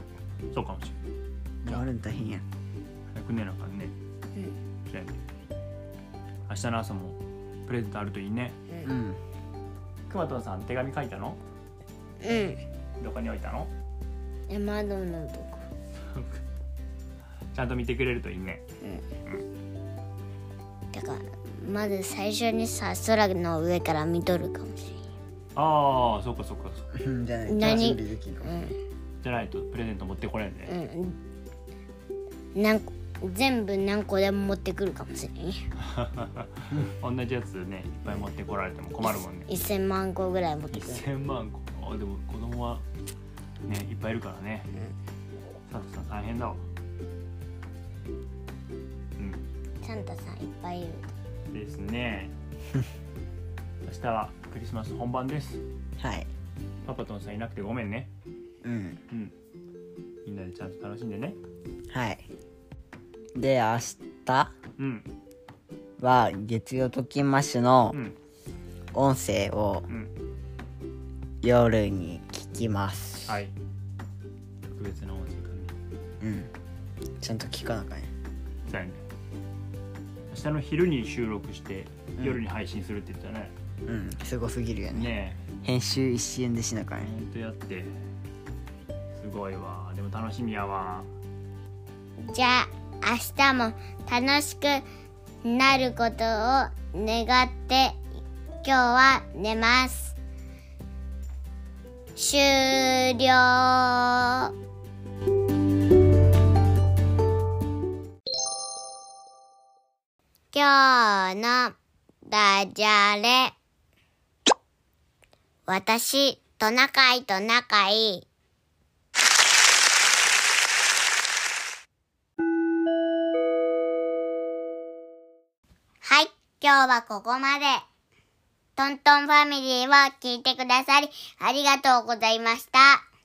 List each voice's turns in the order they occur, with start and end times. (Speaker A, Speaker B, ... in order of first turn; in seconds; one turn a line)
Speaker A: 0.5-1.0
Speaker B: 1.6-2.4
Speaker A: 3.1-3.9
Speaker A: 4.9-5.2
Speaker A: 6.5-8.6
Speaker B: 8.8-9.2
Speaker A: 10.1-11.4
Speaker C: 12.2-12.6
Speaker A: 13.0-13.7
Speaker C: 14.5-15.7
Speaker A: 16.1-16.4
Speaker A: 17.5-18.6
Speaker C: 18.8-19.1
Speaker C: 20.9-25.0
Speaker A: 25.5-26.9
Speaker B: 26.9-28.6
Speaker C: 27.4-28.8
Speaker A: 29.2-30.7
Speaker C: 30.7-31.2
Speaker C: 32.5-35.7
Speaker A: 35.8-39.5
Speaker C: 39.0-41.0
Speaker A: 40.7-42.8
Speaker A: 43.6-44.7
Speaker A: 45.7-46.6
Speaker C: 49.8-51.1
Speaker A: 51.5-52.3
Speaker A: 53.9-55.6
Speaker B: 56.0-56.3
Speaker A: 56.8-58.1
Speaker B: 58.6-59.0
Speaker A: 60.2-61.4
Speaker B: 61.9-62.2
Speaker B: 63.3-64.5
Speaker A: 64.8-65.1
Speaker B: 66.0-68.0
Speaker B: 68.9-69.9
Speaker B: 71.4-73.4
Speaker A: 73.2-73.5
Speaker A: 74.7-75.8
Speaker B: 76.2-76.5
Speaker B: 77.2-78.1
Speaker A: 78.7-79.0
Speaker A: 80.3-83.5
Speaker B: 83.8-85.1
Speaker A: 84.9-85.4
Speaker B: 85.6-87.1
Speaker A: 87.0-87.9
Speaker A: 89.2-91.1
Speaker C: 92.2-94.8
Speaker C: 95.4-98.0
Speaker C: 98.6-100.2
Speaker C: 102.2-104.5
Speaker C: 110.5-111.7
Speaker C: 112.2-113.5
Speaker C: 115.7-118.2
Speaker C: 126.0-127.8
Speaker C: 128.8-133.0